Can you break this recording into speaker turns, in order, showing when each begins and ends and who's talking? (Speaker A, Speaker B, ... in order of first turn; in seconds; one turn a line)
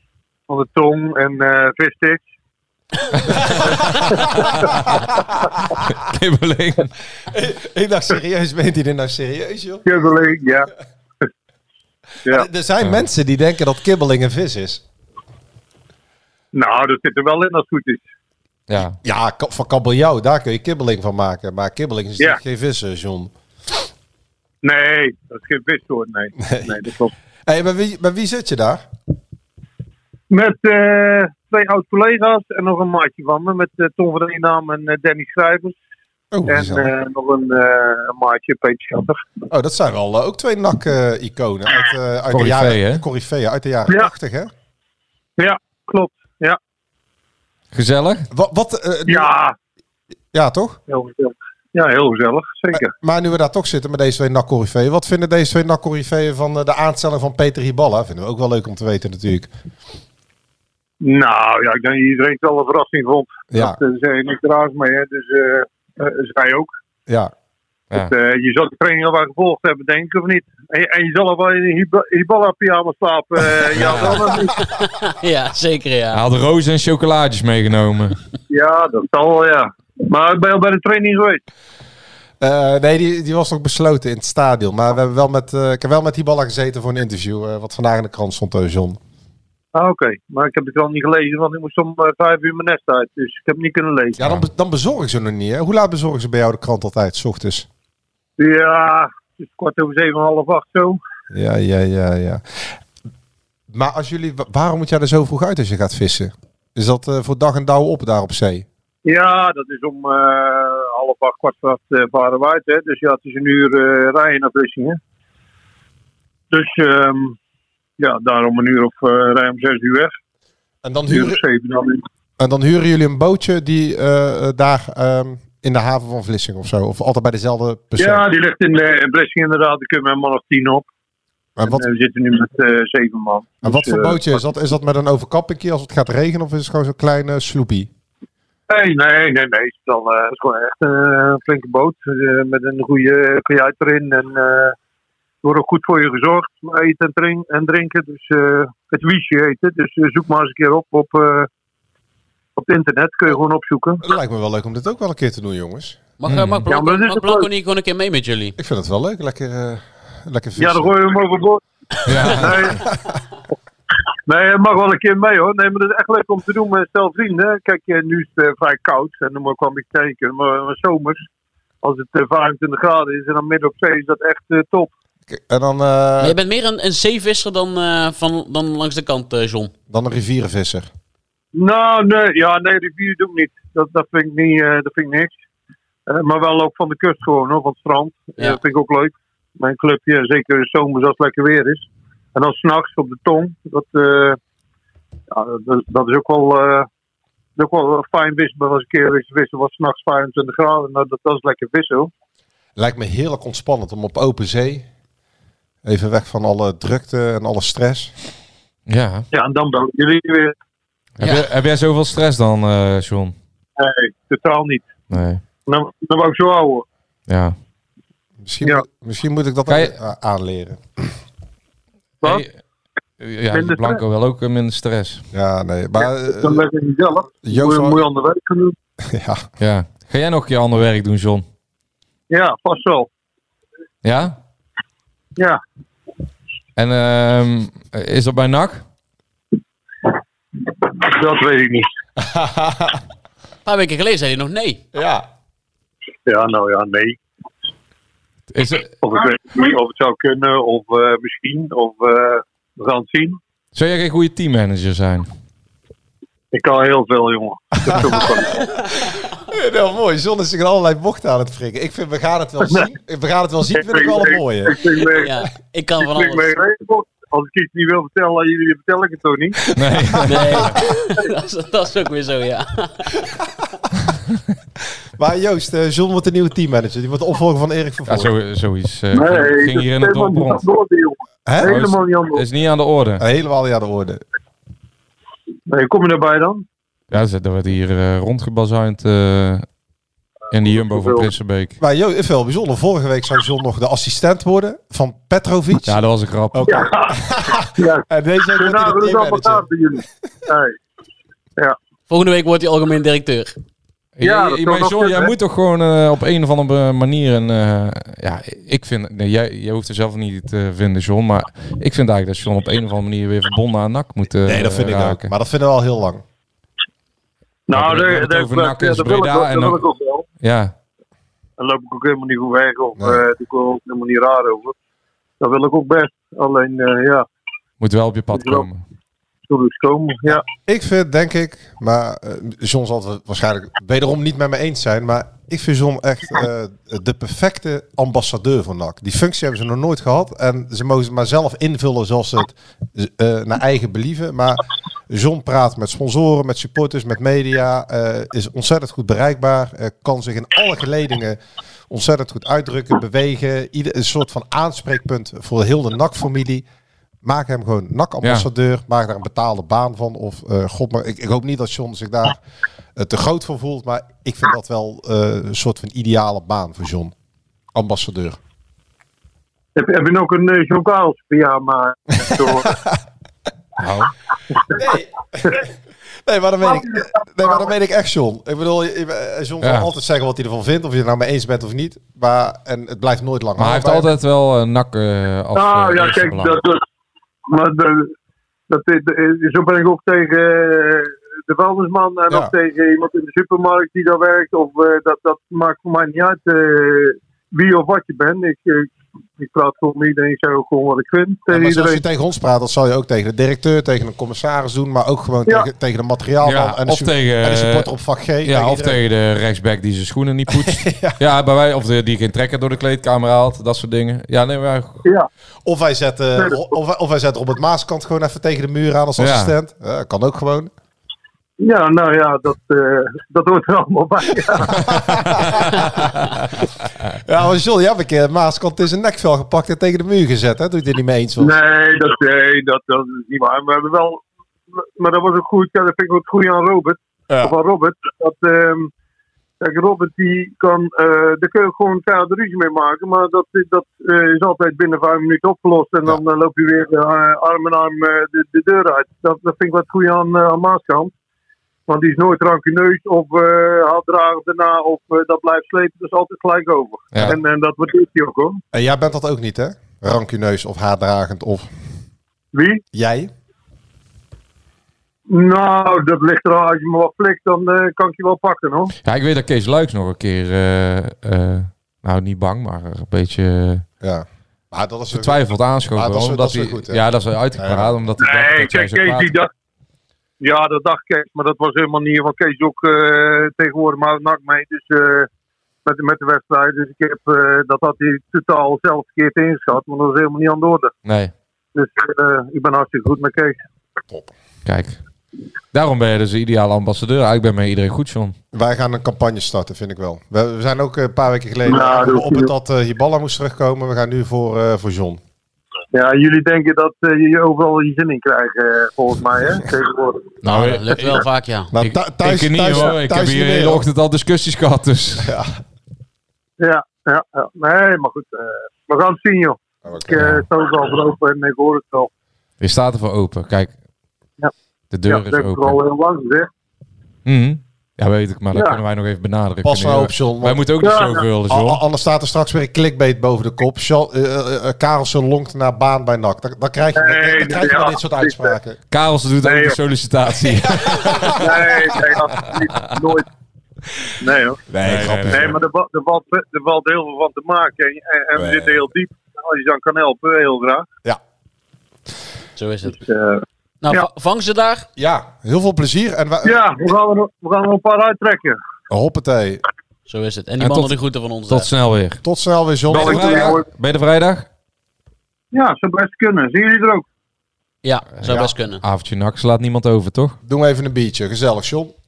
Speaker A: 0.5-2.3
Speaker A: 4.2-4.5
Speaker B: 5.8-6.9
Speaker C: 7.3-10.1
Speaker A: 9.8-10.7
Speaker C: 12.2-14.8
Speaker A: 16.5-18.0
Speaker B: 18.7-19.0
Speaker C: 18.8-23.3
Speaker A: 24.6-27.1
Speaker C: 26.4-26.8
Speaker C: 27.5-28.8
Speaker A: 30.3-35.8
Speaker C: 36.3-36.9
Speaker A: 36.5-39.3
Speaker C: 39.5-44.5
Speaker B: 42.3-43.0
Speaker A: 45.4-46.6
Speaker B: 47.7-48.3
Speaker C: 48.3-49.3
Speaker A: 49.1-49.5
Speaker C: 50.3-50.8
Speaker A: 50.9-52.9
Speaker C: 52.8-59.5
Speaker A: 61.0-66.7
Speaker C: 63.5-63.8
Speaker C: 67.1-67.3
Speaker A: 67.9-74.6
Speaker B: 73.8-74.2
Speaker D: 74.7-76.2
Speaker B: 76.1-78.2
Speaker A: 78.5-81.4
Speaker C: 82.4-89.0
Speaker A: 89.7-94.2
Speaker C: 94.2-97.7
Speaker B: 94.2-94.5
Speaker A: 98.4-101.0
Speaker C: 101.3-102.6
Speaker C: 103.7-108.7
Speaker A: 109.0-115.0
Speaker A: 116.5-117.4
Speaker A: 118.0-120.1
Speaker C: 120.8-121.4
Speaker A: 121.1-122.0
Speaker C: 122.4-128.2
Speaker A: 128.0-130.9
Speaker C: 131.6-131.8
Speaker A: 131.6-134.4
Speaker C: 133.6-137.9
Speaker A: 138.7-144.8
Speaker A: 145.4-151.5
Speaker A: 152.6-154.0
Speaker C: 154.0-156.0
Speaker D: 156.2-158.6
Speaker B: 156.3-156.6
Speaker A: 156.7-157.5
Speaker C: 158.6-160.9
Speaker A: 160.6-161.6
Speaker B: 162.1-162.6
Speaker A: 162.2-162.8
Speaker C: 162.7-163.0
Speaker A: 164.3-171.2
Speaker A: 171.8-174.9
Speaker C: 175.3-176.4
Speaker D: 176.2-179.7
Speaker C: 179.9-180.9
Speaker A: 181.5-185.3
Speaker A: 186.1-194.4
Speaker A: 195.3-196.9
Speaker A: 197.6-202.1
Speaker C: 202.8-204.9
Speaker C: 205.8-208.1
Speaker B: 208.9-209.3
Speaker A: 209.3-210.5
Speaker B: 211.2-213.3
Speaker D: 211.2-211.5
Speaker A: 213.8-214.9
Speaker B: 215.1-215.4
Speaker A: 215.7-216.8
Speaker B: 217.3-217.6
Speaker C: 218.4-221.1
Speaker B: 219.7-219.9
Speaker B: 222.2-222.5
Speaker B: 223.2-225.2
Speaker A: 223.5-224.0
Speaker C: 225.3-226.6
Speaker A: 226.0-228.8
Speaker C: 227.4-228.0
Speaker C: 229.0-229.4
Speaker B: 229.6-231.4
Speaker A: 232.3-233.1
Speaker B: 234.0-234.4
Speaker B: 236.8-238.8
Speaker A: 240.9-241.9
Speaker C: 242.2-243.0
Speaker D: 243.7-244.8
Speaker C: 244.9-245.2
Speaker A: 246.3-247.2
Speaker B: 248.5-248.9
Speaker A: 249.0-253.4
Speaker B: 253.8-255.3
Speaker A: 256.5-258.7
Speaker C: 257.9-258.4
Speaker C: 259.4-264.8
Speaker A: 263.7-265.3
Speaker D: 265.1-266.5
Speaker A: 266.0-269.6
Speaker B: 269.7-270.8
Speaker D: 270.2-273.2
Speaker C: 275.2-278.3
Speaker B: 278.1-280.6
Speaker A: 279.1-282.4
Speaker C: 281.5-281.8
Speaker B: 281.6-283.2
Speaker C: 283.2-284.2
Speaker A: 285.7-286.6
Speaker B: 287.1-289.6
Speaker B: 290.5-291.8
Speaker A: 290.7-291.3
Speaker C: 291.8-299.7
Speaker B: 295.9-296.9
Speaker A: 296.7-300.8
Speaker D: 302.1-303.5
Speaker B: 304.2-315.3
Speaker A: 304.2-305.3
Speaker C: 314.4-316.2
Speaker A: 317.7-320.2
Speaker B: 317.7-319.8
Speaker B: 320.4-320.7
Speaker A: 321.6-324.8
Speaker A: 325.4-327.3
Speaker B: 327.8-328.8
Speaker A: 328.3-328.7
Speaker A: 329.5-330.4
Speaker C: 330.3-356.7
Speaker C: 357.2-362.4
Speaker C: 363.0-367.1
Speaker C: 367.7-368.4
Speaker A: 369.8-372.7
Speaker C: 372.2-372.9
Speaker B: 373.8-374.1
Speaker C: 374.8-375.7
Speaker C: 376.2-384.1
Speaker A: 376.6-377.7
Speaker B: 379.6-379.9
Speaker B: 383.6-386.6
Speaker A: 385.6-386.8
Speaker A: 387.5-388.1
Speaker A: 388.7-402.0
Speaker C: 401.5-409.0
Speaker B: 406.4-407.9
Speaker B: 408.4-415.0
Speaker C: 410.5-411.2
Speaker C: 415.6-420.7
Speaker A: 416.4-416.7
Speaker B: 419.2-419.5
Speaker A: 421.6-424.9
Speaker C: 424.7-425.8
Speaker C: 427.2-431.5
Speaker A: 431.4-434.2
Speaker A: 435.0-438.9
Speaker A: 439.6-451.1
Speaker A: 451.9-458.6
Speaker C: 458.7-461.7
Speaker A: 462.5-462.8
Speaker C: 462.9-463.3
Speaker A: 465.3-468.9
Speaker B: 469.0-473.9
Speaker C: 474.0-475.4
Speaker B: 475.1-479.3
Speaker C: 475.9-477.0
Speaker C: 477.6-477.9
Speaker A: 478.2-479.5
Speaker A: 480.4-485.3
Speaker A: 485.9-490.9
Speaker B: 491.1-491.3
Speaker A: 491.8-493.6
Speaker B: 494.6-495.0
Speaker B: 495.7-498.4
Speaker C: 498.5-505.2
Speaker A: 501.6-502.5
Speaker A: 505.9-510.4
Speaker D: 510.4-511.7
Speaker B: 510.4-511.2
Speaker C: 511.7-513.9
Speaker B: 511.8-515.3
Speaker C: 515.2-515.5
Speaker A: 516.6-522.1
Speaker C: 519.8-520.2
Speaker B: 522.6-523.7
Speaker B: 524.9-525.8
Speaker A: 525.1-526.5
Speaker B: 527.3-531.8
Speaker A: 528.5-528.8
Speaker C: 529.6-530.7
Speaker A: 530.8-531.3
Speaker C: 531.5-538.8
Speaker A: 537.0-538.5
Speaker B: 538.9-541.5
Speaker A: 539.4-539.8
Speaker C: 540.7-541.4
Speaker A: 541.3-543.3
Speaker B: 542.5-542.8
Speaker A: 544.2-544.6
Speaker C: 544.7-545.6
Speaker B: 544.8-545.5
Speaker A: 545.3-550.9
Speaker C: 548.4-548.8
Speaker D: 552.6-553.0
Speaker A: 552.9-554.1
Speaker D: 553.8-554.9
Speaker C: 555.0-556.6
Speaker A: 556.4-558.6
Speaker C: 558.9-559.6
Speaker D: 560.1-561.7
Speaker B: 560.6-561.0
Speaker B: 561.5-562.2
Speaker C: 562.2-563.6
Speaker B: 562.9-564.5
Speaker A: 562.9-563.7
Speaker A: 565.5-567.0
Speaker D: 567.8-568.8
Speaker B: 568.2-570.4
Speaker C: 570.5-571.9